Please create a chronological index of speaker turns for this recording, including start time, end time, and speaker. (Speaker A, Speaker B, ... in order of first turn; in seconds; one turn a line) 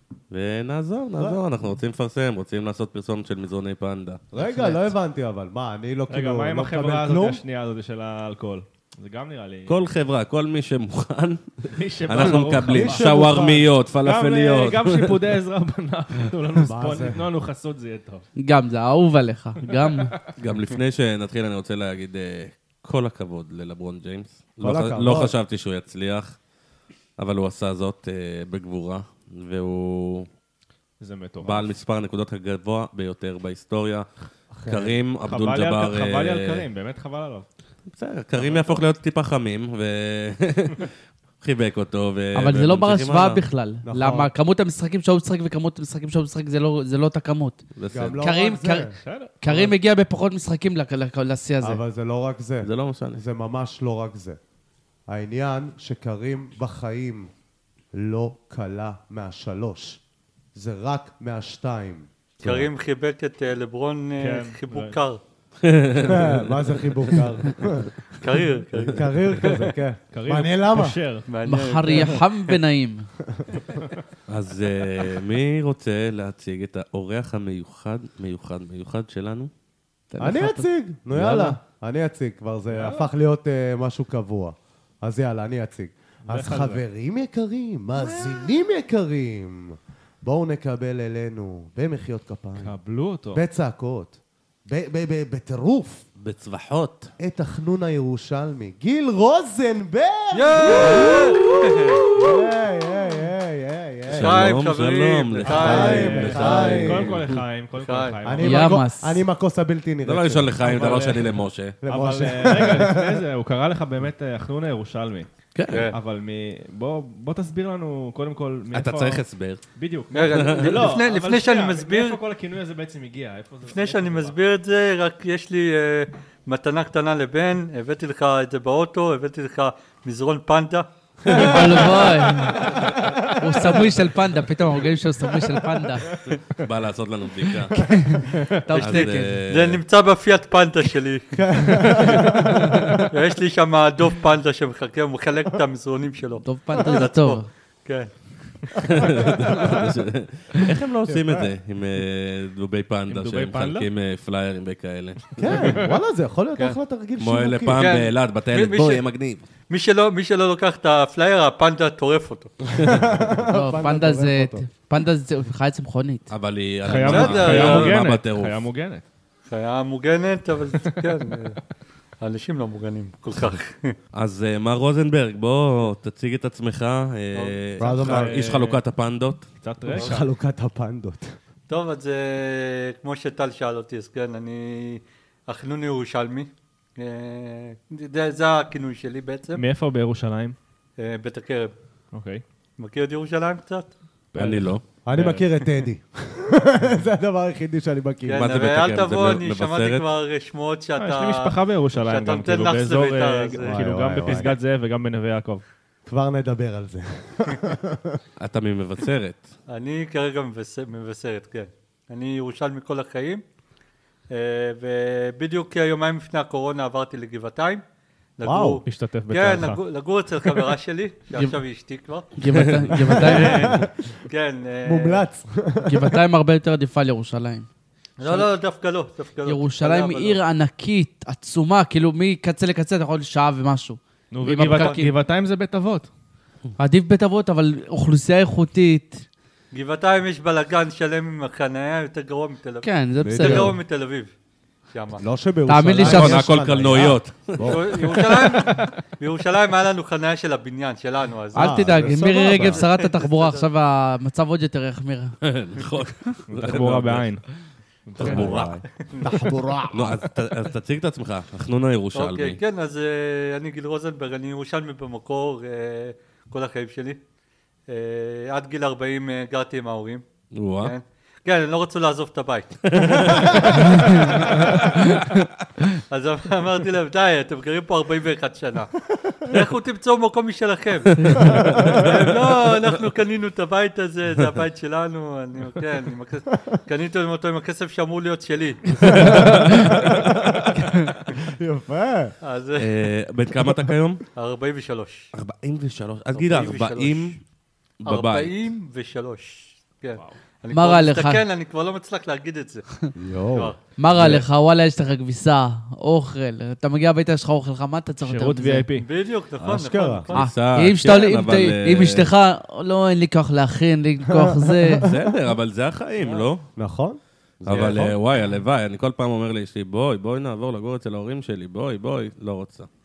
Speaker A: 0.3-4.2
Speaker B: 1.2-1.4
Speaker B: 4.3-7.4
Speaker C: 4.4-4.8
Speaker D: 6.1-9.8
Speaker A: 9.7-15.2
Speaker D: 11.7-13.5
Speaker B: 12.2-13.7
Speaker D: 14.0-18.2
Speaker B: 16.6-17.3
Speaker C: 18.4-20.1
Speaker D: 19.7-20.1
Speaker A: 20.4-26.4
Speaker B: 24.6-25.4
Speaker A: 27.2-30.3
Speaker D: 31.0-31.7
Speaker A: 31.4-34.1
Speaker B: 34.5-35.0
Speaker A: 34.7-36.7
Speaker D: 35.2-37.5
Speaker A: 37.9-40.9
Speaker D: 38.4-38.8
Speaker A: 41.4-43.5
Speaker C: 42.4-47.6
Speaker B: 43.9-44.3
Speaker A: 47.8-48.2
Speaker B: 47.9-49.7
Speaker C: 48.2-51.8
Speaker D: 49.0-49.4
Speaker B: 51.6-54.4
Speaker A: 52.6-53.2
Speaker B: 55.1-57.3
Speaker B: 57.9-60.0
Speaker B: 60.5-62.7
Speaker E: 62.4-65.2
Speaker D: 64.2-65.0
Speaker A: 65.6-66.8
Speaker B: 66.0-67.9
Speaker E: 68.2-69.7
Speaker B: 68.9-71.0
Speaker D: 70.1-71.3
Speaker E: 71.3-72.5
Speaker C: 71.5-73.1
Speaker A: 74.3-79.5
Speaker C: 80.1-81.6
Speaker B: 80.2-92.8
Speaker D: 82.7-83.1
Speaker D: 86.2-86.8
Speaker D: 92.6-93.4
Speaker B: 93.3-96.0
Speaker A: 96.2-97.1
Speaker B: 97.2-101.2
Speaker E: 100.3-102.0
Speaker B: 102.2-104.6
Speaker A: 104.1-107.3
Speaker E: 104.1-106.8
Speaker D: 105.5-108.9
Speaker B: 105.5-107.3
Speaker E: 107.7-108.2
Speaker B: 108.2-110.6
Speaker C: 108.4-109.2
Speaker A: 110.0-111.8
Speaker D: 110.6-115.3
Speaker B: 111.8-113.2
Speaker A: 115.5-115.9
Speaker E: 115.7-116.0
Speaker D: 115.9-124.3
Speaker A: 118.7-119.6
Speaker E: 120.1-122.2
Speaker A: 120.3-120.9
Speaker E: 123.7-131.9
Speaker B: 131.3-133.2
Speaker C: 131.3-132.8
Speaker C: 133.3-136.1
Speaker A: 136.3-138.0
Speaker C: 137.8-139.4
Speaker E: 138.7-142.2
Speaker A: 138.8-139.8
Speaker B: 141.5-142.8
Speaker E: 143.1-148.9
Speaker C: 146.4-147.5
Speaker A: 148.9-155.8
Speaker B: 149.0-149.5
Speaker B: 151.1-151.4
Speaker D: 153.1-153.9
Speaker B: 155.4-157.8
Speaker D: 155.6-155.9
Speaker A: 157.2-159.4
Speaker E: 157.7-159.1
Speaker E: 159.7-162.5
Speaker B: 162.7-164.6
Speaker A: 162.8-163.2
Speaker C: 163.5-166.3
Speaker A: 166.3-168.6
Speaker D: 166.8-169.0
Speaker E: 167.0-168.0
Speaker E: 169.5-171.6
Speaker E: 172.2-174.0
Speaker A: 174.1-179.5
Speaker E: 177.3-177.6
Speaker D: 177.8-178.8
Speaker B: 177.8-178.5
Speaker D: 179.6-180.2
Speaker B: 179.9-181.4
Speaker E: 181.7-189.6
Speaker D: 189.6-190.6
Speaker E: 191.0-191.7
Speaker D: 192.1-192.4
Speaker E: 192.8-193.9
Speaker D: 194.3-195.7
Speaker A: 194.4-194.8
Speaker B: 195.1-198.5
Speaker E: 198.3-203.9
Speaker A: 198.3-200.0
Speaker D: 201.0-205.6
Speaker B: 203.6-204.6
Speaker B: 206.1-208.2
Speaker A: 208.4-209.5
Speaker E: 209.7-213.4
Speaker E: 214.3-217.8
Speaker E: 218.4-222.3
Speaker B: 218.4-218.8
Speaker D: 218.8-219.8
Speaker C: 222.3-223.8
Speaker A: 222.5-222.9
Speaker B: 223.0-223.9
Speaker E: 223.1-225.3
Speaker B: 224.8-226.2
Speaker C: 225.8-227.7
Speaker E: 228.2-230.4
Speaker C: 228.2-228.5
Speaker C: 229.4-235.1
Speaker D: 234.3-236.1
Speaker E: 234.7-235.1
Speaker C: 236.8-239.2
Speaker E: 239.7-244.3
Speaker C: 242.8-243.8
Speaker B: 243.2-243.8
Speaker E: 244.9-245.2
Speaker B: 245.2-248.8
Speaker C: 245.7-246.5
Speaker A: 246.0-248.0
Speaker E: 247.7-253.7
Speaker B: 251.5-252.8
Speaker C: 251.5-255.3
Speaker A: 255.4-257.3
Speaker D: 256.5-258.7
Speaker A: 258.2-258.8
Speaker E: 258.2-259.6
Speaker B: 259.2-260.3
Speaker A: 259.9-262.6
Speaker E: 262.1-267.2
Speaker E: 267.9-270.2
Speaker A: 270.5-270.9
Speaker E: 270.8-273.7
Speaker A: 272.9-273.8
Speaker C: 273.8-274.4
Speaker E: 276.1-289.5
Speaker C: 281.2-281.6
Speaker B: 281.4-282.1
Speaker B: 289.1-292.4
Speaker E: 292.4-293.0
Speaker A: 292.8-294.2
Speaker E: 294.4-295.3
Speaker A: 295.3-297.4
Speaker E: 296.3-297.4
Speaker A: 298.0-298.7
Speaker E: 298.1-302.9
Speaker C: 300.7-301.4
Speaker B: 303.2-303.7
Speaker E: 303.5-303.8
Speaker C: 304.0-308.9
Speaker D: 308.2-309.1
Speaker E: 309.0-310.5
Speaker B: 309.6-310.3
Speaker C: 310.3-315.1
Speaker A: 310.4-312.3
Speaker B: 314.3-314.9
Speaker A: 315.0-316.7
Speaker E: 316.2-316.5
Speaker B: 316.8-318.2
Speaker A: 317.6-322.9
Speaker E: 317.7-318.0